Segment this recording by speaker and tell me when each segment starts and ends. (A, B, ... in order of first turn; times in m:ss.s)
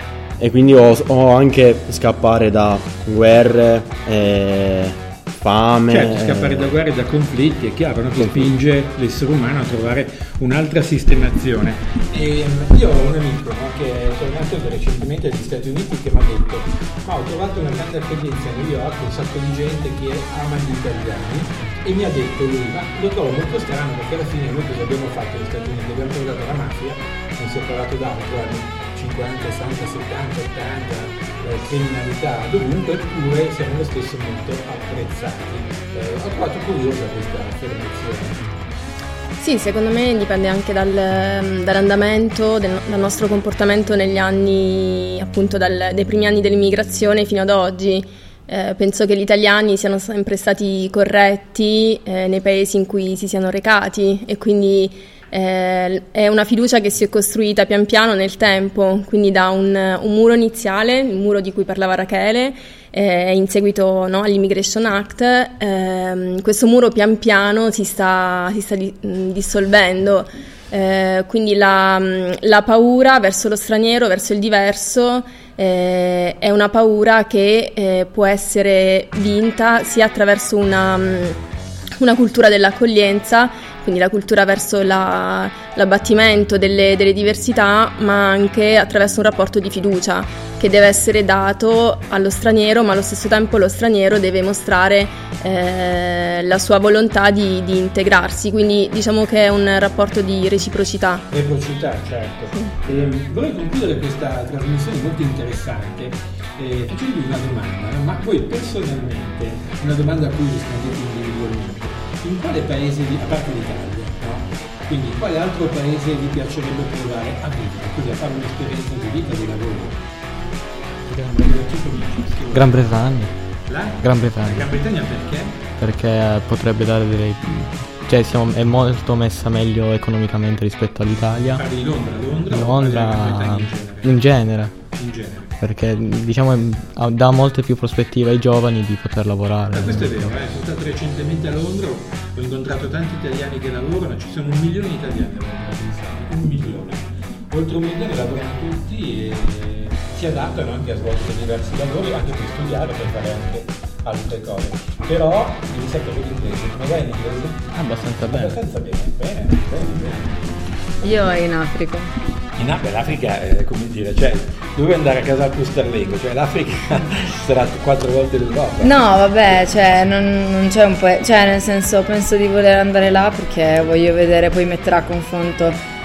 0:00.4-0:06.7 A
0:05.9-0:38.5 B
0:08.2-0:08.5 A
0:39.4-1:21.4 C
1:22.0-1:41.2 C
1:41.3-2:00.0 B
2:01.1-2:01.6 D
2:01.4-2:02.9 B
2:02.5-2:03.4 D
2:03.7-2:05.6 B
2:04.0-2:04.8 D
2:05.8-2:11.6 D
2:11.5-2:14.2 B
2:12.5-2:14.8 D
2:14.9-2:15.5 B
2:15.6-2:20.4 D
2:19.7-2:37.7 B
2:37.7-2:38.6 D
2:38.2-2:40.5 B
2:41.0-2:42.1 E
2:42.6-2:49.0 B
2:48.8-2:55.8 E